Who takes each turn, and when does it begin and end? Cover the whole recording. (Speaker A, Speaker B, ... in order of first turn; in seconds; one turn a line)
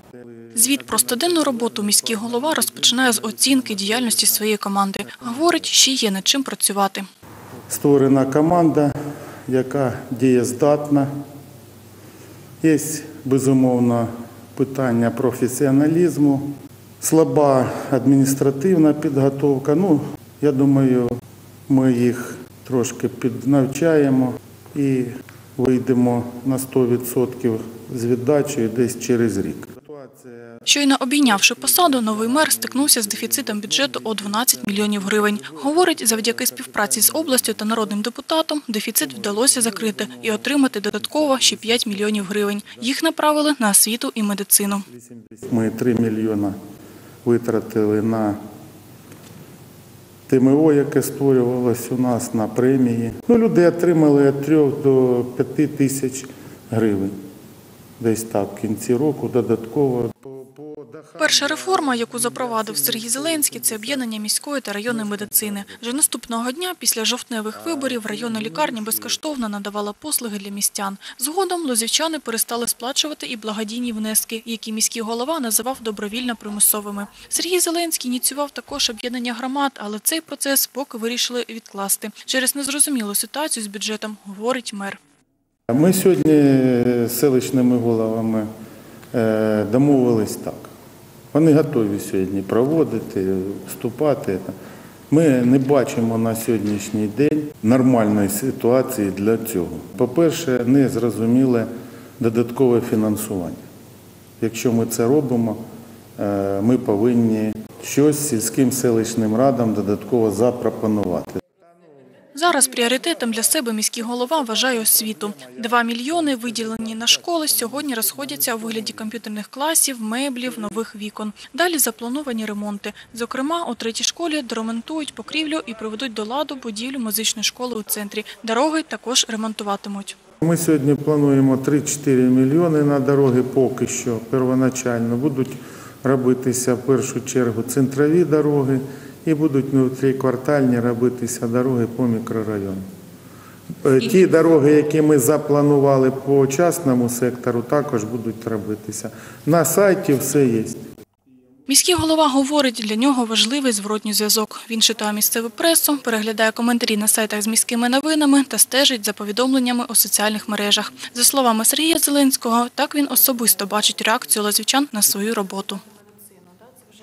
Speaker A: 0.2-4.5
Speaker B: 0.5-7.1
Speaker A: 5.2-5.5
Speaker A: 7.7-8.9
Speaker A: 9.5-11.1
Speaker A: 12.6-21.2
Speaker A: 21.7-30.7
Speaker B: 30.7-44.9
Speaker A: 31.3-37.6
Speaker A: 39.2-40.5
Speaker A: 41.0-42.3
Speaker A: 44.9-46.6
Speaker A: 47.2-48.4
Speaker A: 50.3-57.1
Speaker A: 58.0-64.0
Speaker B: 61.2-85.0
Speaker A: 64.9-65.9
Speaker A: 67.5-69.2
Speaker A: 85.7-88.5
Speaker A: 89.1-90.7
Speaker A: 91.3-94.5
Speaker A: 95.1-103.6
Speaker A: 104.4-105.6
Speaker A: 106.2-111.5
Speaker B: 112.3-130.2
Speaker A: 115.4-118.9
Speaker A: 130.4-142.8
Speaker A: 143.8-150.8
Speaker B: 151.7-165.8